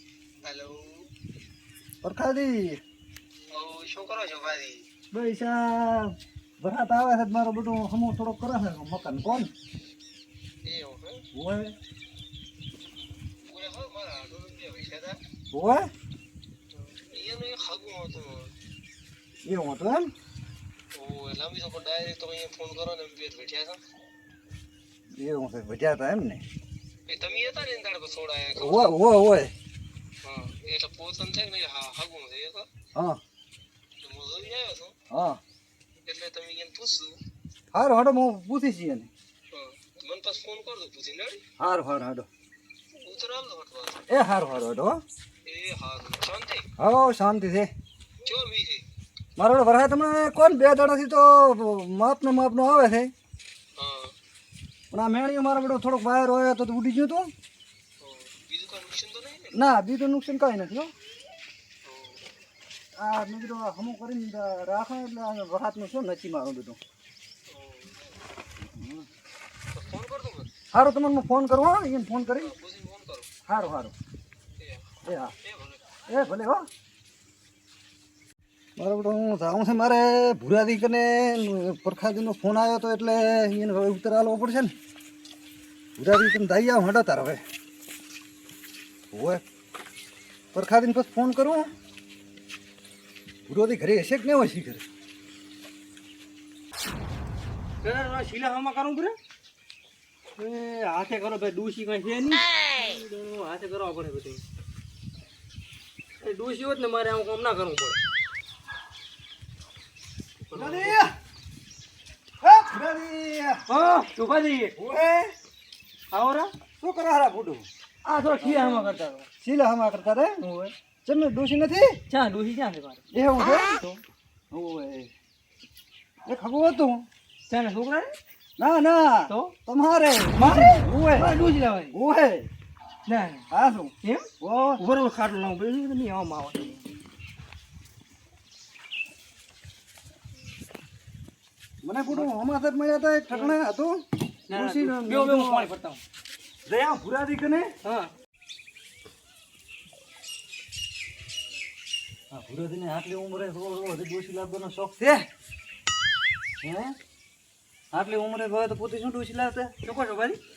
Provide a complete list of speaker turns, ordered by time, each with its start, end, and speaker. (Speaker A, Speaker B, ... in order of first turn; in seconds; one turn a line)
Speaker A: 0.4-1.1
Speaker B: 2.0-2.8
Speaker A: 3.5-4.8
Speaker B: 5.1-9.5
Speaker A: 10.6-11.2
Speaker B: 11.3-11.7
Speaker A: 13.5-15.2
Speaker B: 15.5-15.9
Speaker A: 16.9-18.5
Speaker B: 19.4-20.1
Speaker A: 20.9-23.8
Speaker B: 25.1-26.4
Speaker A: 27.1-28.9
Speaker B: 28.5-29.5
Speaker A: 30.2-32.7
Speaker B: 32.9-33.2
Speaker A: 34.0-34.9
Speaker B: 35.1-35.4
Speaker A: 36.1-37.2
Speaker B: 37.7-39.1
Speaker A: 39.5-41.4
Speaker B: 41.6-42.3
Speaker A: 43.0-44.0
Speaker B: 44.1-45.0
Speaker A: 45.5-46.7
Speaker B: 46.8-47.7
Speaker A: 48.2-48.8
Speaker B: 49.4-53.1
Speaker A: 53.8-54.1
Speaker B: 54.9-57.3
Speaker A: 58.0-59.6
Speaker B: 59.5-60.9
Speaker A: 61.8-62.2
Speaker B: 62.9-66.8
Speaker A: 67.5-68.1
Speaker B: 68.6-69.1
Speaker A: 69.7-70.5
Speaker B: 70.7-72.5
Speaker A: 72.4-73.2
Speaker B: 73.5-73.9
Speaker B: 75.0-75.3
Speaker A: 75.5-75.8
Speaker B: 76.1-76.7
Speaker B: 78.8-84.7
Speaker B: 86.0-87.4
Speaker B: 89.1-89.4
Speaker B: 90.5-91.7
Speaker B: 93.5-94.8
Speaker C: 97.8-99.2
Speaker C: 100.4-104.4
Speaker C: 106.2-108.0
Speaker B: 110.5-111.1
Speaker A: 110.6-111.0
Speaker B: 112.4-113.7
Speaker C: 113.7-114.8
Speaker B: 114.8-115.3
Speaker C: 116.1-116.5
Speaker B: 116.8-117.7
Speaker C: 118.0-119.3
Speaker B: 119.4-120.4
Speaker C: 120.4-120.7
Speaker B: 121.0-122.0
Speaker C: 122.1-123.0
Speaker B: 123.1-125.1
Speaker B: 126.3-127.1
Speaker C: 127.5-128.2
Speaker B: 128.6-132.5
Speaker C: 129.3-129.6
Speaker C: 130.3-132.0
Speaker C: 133.1-133.5
Speaker B: 133.5-134.8
Speaker C: 134.0-134.3
Speaker C: 134.8-136.9
Speaker B: 141.8-145.7
Speaker C: 143.3-143.6
Speaker C: 144.5-146.0
Speaker B: 146.7-147.7
Speaker C: 147.8-148.1
Speaker B: 152.3-155.3
Speaker B: 156.6-157.0
Speaker B: 157.9-159.7
Speaker C: 159.8-160.4